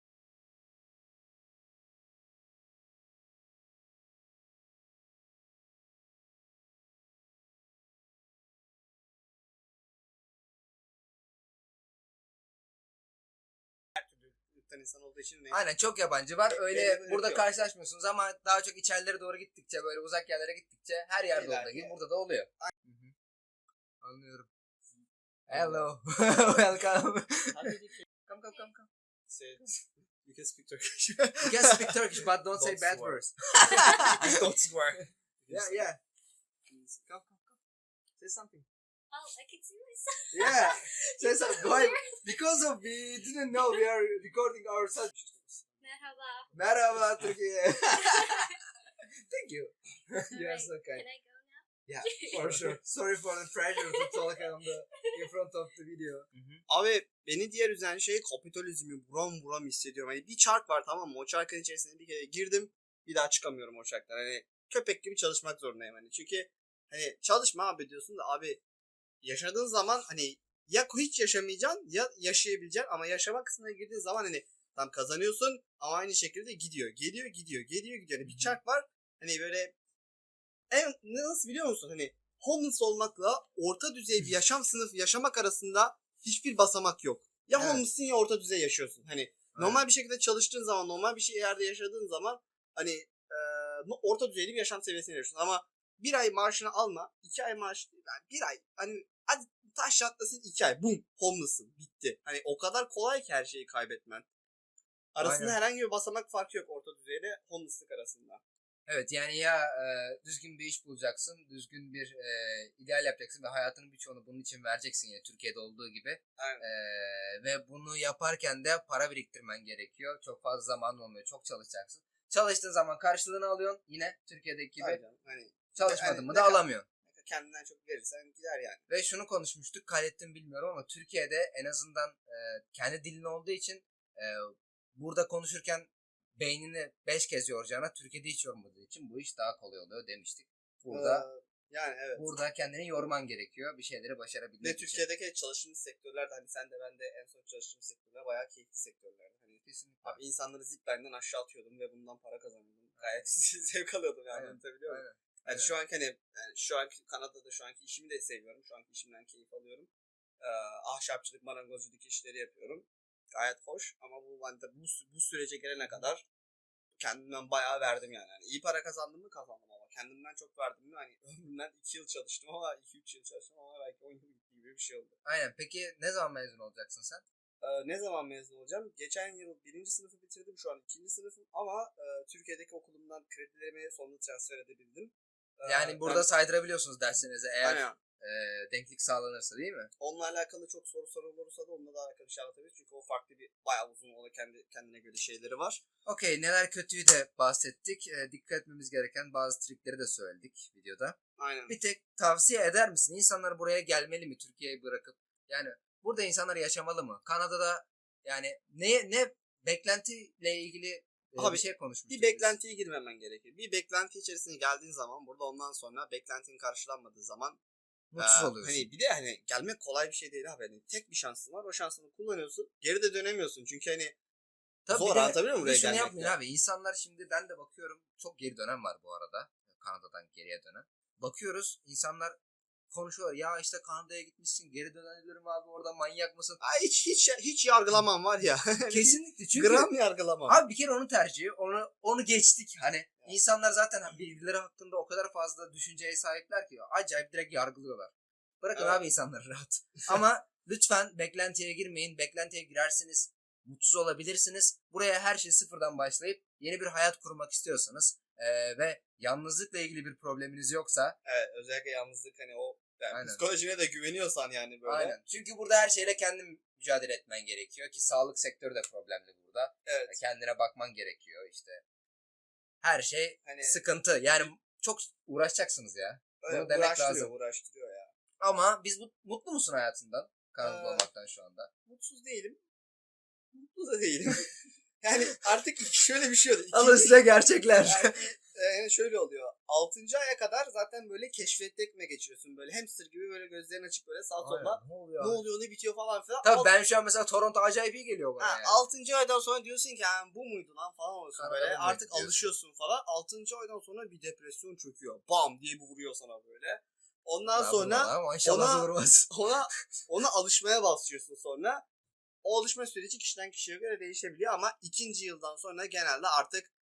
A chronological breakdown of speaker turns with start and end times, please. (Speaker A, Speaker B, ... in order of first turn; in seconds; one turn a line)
Speaker A: 13.9-15.6
Speaker B: 15.5-23.1
Speaker A: 16.5-17.4
Speaker A: 21.3-22.0
Speaker B: 24.0-24.5
Speaker A: 25.5-25.9
Speaker B: 25.5-27.6
Speaker A: 27.5-28.1
Speaker B: 28.3-28.9
Speaker A: 29.3-35.9
Speaker B: 31.4-34.3
Speaker B: 35.5-36.0
Speaker A: 36.7-37.6
Speaker A: 38.2-38.7
Speaker C: 39.1-42.1
Speaker B: 40.3-45.1
Speaker A: 45.1-45.7
Speaker C: 45.8-46.5
Speaker B: 46.5-48.5
Speaker C: 47.9-48.5
Speaker B: 49.3-51.0
Speaker C: 50.3-52.8
Speaker B: 51.9-56.6
Speaker A: 52.3-52.7
Speaker C: 53.8-54.3
Speaker A: 56.7-68.6
Speaker A: 69.2-79.7
Speaker B: 78.3-78.5
Speaker A: 80.7-104.3
Speaker B: 87.6-87.8
Speaker B: 89.5-89.8
Speaker A: 105.2-108.4
Speaker B: 105.2-105.5
Speaker B: 108.9-125.0
Speaker A: 116.4-116.6
Speaker A: 124.8-128.8
Speaker B: 125.8-126.9
Speaker B: 128.9-141.2
Speaker A: 140.9-142.4
Speaker B: 142.2-145.1
Speaker A: 144.6-159.9
Speaker B: 149.6-150.2
Speaker B: 154.3-155.7
Speaker A: 160.4-166.2
Speaker A: 167.0-175.2
Speaker B: 175.2-177.2
Speaker A: 177.6-186.3
Speaker B: 185.7-189.9
Speaker A: 187.6-188.0
Speaker A: 190.0-195.8
Speaker B: 196.1-201.2
Speaker A: 201.4-201.8
Speaker B: 201.7-212.6
Speaker A: 211.4-217.6
Speaker B: 218.1-218.9
Speaker A: 218.2-224.2
Speaker B: 224.9-232.4
Speaker A: 224.9-226.3
Speaker B: 232.9-236.6
Speaker A: 236.6-240.6
Speaker B: 238.9-239.9
Speaker B: 240.5-261.2
Speaker A: 248.8-249.0
Speaker A: 261.2-265.2
Speaker B: 263.1-263.4
Speaker B: 264.9-271.8
Speaker A: 269.9-270.2
Speaker B: 272.8-277.3
Speaker A: 273.4-273.8
Speaker A: 276.4-278.1
Speaker B: 278.4-281.7
Speaker A: 280.6-281.1
Speaker A: 281.9-282.6
Speaker A: 283.5-287.2
Speaker B: 286.7-288.2
Speaker A: 287.9-296.7
Speaker B: 294.4-295.4
Speaker B: 296.4-298.8
Speaker A: 298.4-311.8
Speaker B: 301.4-302.4
Speaker B: 307.6-309.3
Speaker A: 312.4-316.7